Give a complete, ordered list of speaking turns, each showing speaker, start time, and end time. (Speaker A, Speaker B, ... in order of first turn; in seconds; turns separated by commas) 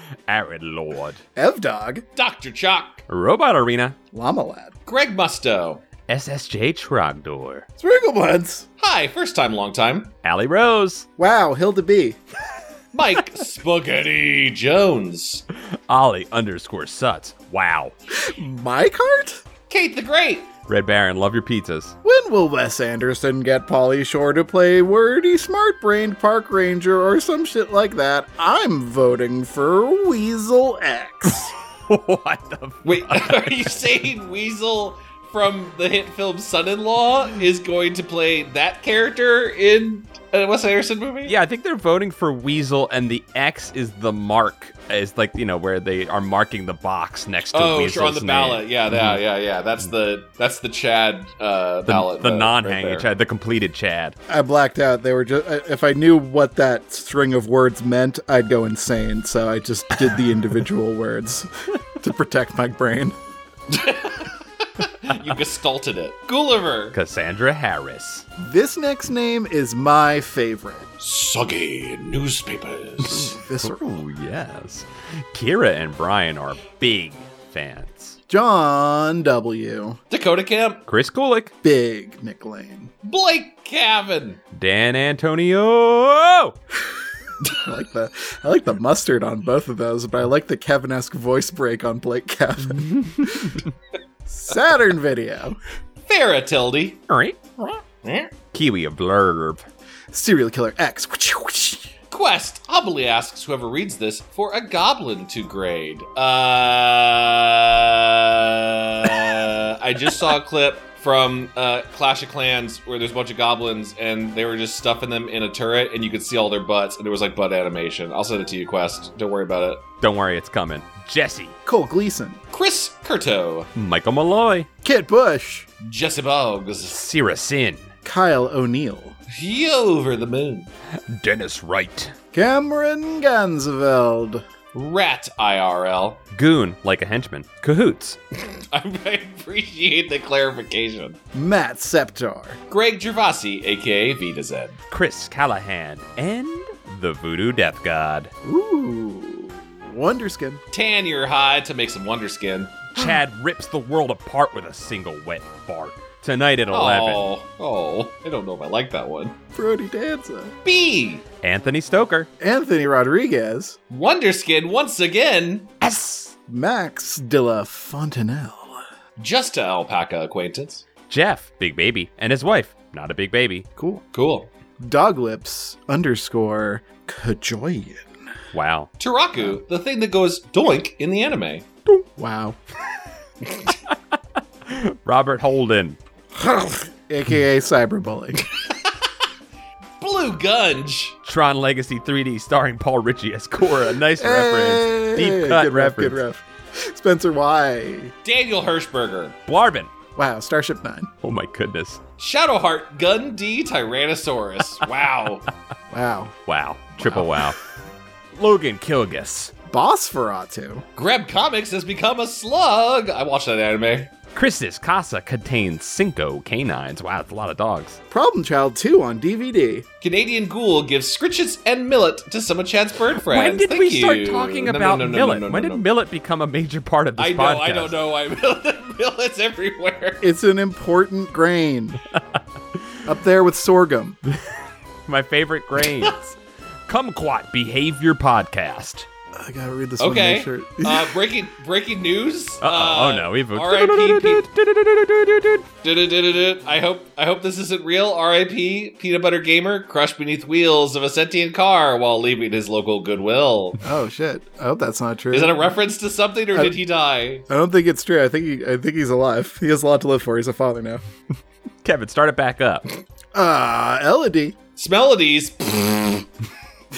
Speaker A: 0.3-1.2, Speaker B: 1.4-2.0, Speaker C: 2.1-3.0, Speaker A: 3.1-4.0, Speaker B: 4.1-4.7, Speaker C: 4.9-5.8, Speaker A: 6.1-7.7, Speaker B: 7.8-8.7, Speaker C: 8.8-10.1, Speaker A: 10.2-11.1, Speaker B: 11.2-12.2, Speaker C: 12.9-15.4, Speaker A: 15.9-17.9, Speaker B: 18.1-19.4, Speaker C: 19.7-20.5, Speaker A: 20.7-21.9, Speaker B: 22.0-31.5, Speaker A: 31.9-33.8, Speaker C: 32.8-41.3, Speaker A: 41.3-49.2, Speaker C: 47.5-53.1, Speaker A: 51.9-54.1, Speaker B: 54.3-63.1, Speaker C: 63.7-67.0, Speaker A: 66.9-68.2, Speaker B: 68.4-70.9, Speaker C: 71.0-73.4, Speaker B: 73.1-73.8, Speaker A: 73.6-78.2, Speaker B: 78.3-80.0, Speaker C: 80.1-80.8, Speaker A: 80.9-81.5, Speaker B: 81.6-82.9, Speaker C: 83.0-84.4, Speaker A: 84.5-86.5, Speaker B: 87.5-93.6, Speaker B: 94.3-95.6, Speaker C: 96.1-97.0, Speaker A: 97.1-97.4, Speaker C: 98.0-98.3, Speaker A: 98.5-99.6, Speaker B: 100.1-101.9, Speaker C: 102.1-119.8, Speaker A: 120.0-121.5, Speaker B: 121.6-122.4, Speaker C: 122.5-123.7, Speaker A: 123.7-124.7, Speaker B: 124.8-125.7, Speaker C: 125.8-127.0, Speaker A: 126.9-127.9, Speaker B: 128.0-129.2, Speaker C: 129.3-130.7, Speaker A: 131.1-132.1, Speaker B: 132.3-134.4, Speaker C: 134.7-136.2, Speaker A: 136.3-138.2, Speaker C: 138.5-141.2, Speaker B: 141.3-142.6, Speaker C: 142.7-144.8, Speaker A: 144.9-148.3, Speaker B: 148.4-150.6, Speaker C: 150.7-152.8, Speaker A: 152.9-157.3, Speaker C: 156.7-159.3, Speaker B: 159.5-160.5, Speaker C: 160.6-161.2, Speaker A: 161.4-162.3, Speaker B: 162.4-163.8, Speaker C: 163.9-165.7, Speaker A: 165.8-166.3, Speaker B: 166.5-168.8, Speaker C: 169.2-170.8, Speaker A: 171.1-173.7, Speaker B: 173.8-174.0, Speaker C: 174.1-174.5, Speaker B: 174.8-178.1, Speaker A: 178.5-178.9, Speaker C: 179.0-181.6, Speaker B: 182.2-182.6, Speaker A: 184.7-186.0, Speaker B: 186.3-188.4, Speaker C: 190.0-191.2, Speaker A: 191.2-196.2, Speaker B: 194.2-198.1, Speaker C: 198.2-199.3, Speaker A: 199.5-199.9, Speaker B: 200.2-201.1, Speaker A: 201.2-202.0, Speaker C: 202.2-205.4, Speaker B: 205.9-206.3, Speaker A: 206.4-207.6, Speaker A: 208.3-209.5, Speaker B: 209.7-210.8, Speaker C: 210.9-214.1, Speaker A: 214.3-218.0, Speaker B: 218.1-219.8, Speaker C: 220.0-225.8, Speaker A: 223.2-227.9, Speaker C: 227.2-230.2, Speaker B: 230.2-232.0, Speaker B: 233.1-234.2, Speaker A: 235.1-236.3, Speaker A: 236.9-239.1, Speaker B: 239.3-241.2, Speaker C: 240.0-244.4, Speaker A: 242.6-245.7, Speaker C: 245.8-253.8, Speaker B: 253.8-255.7, Speaker C: 255.3-257.4, Speaker B: 257.5-261.0, Speaker A: 261.8-262.9, Speaker B: 263.3-264.6, Speaker C: 264.8-266.2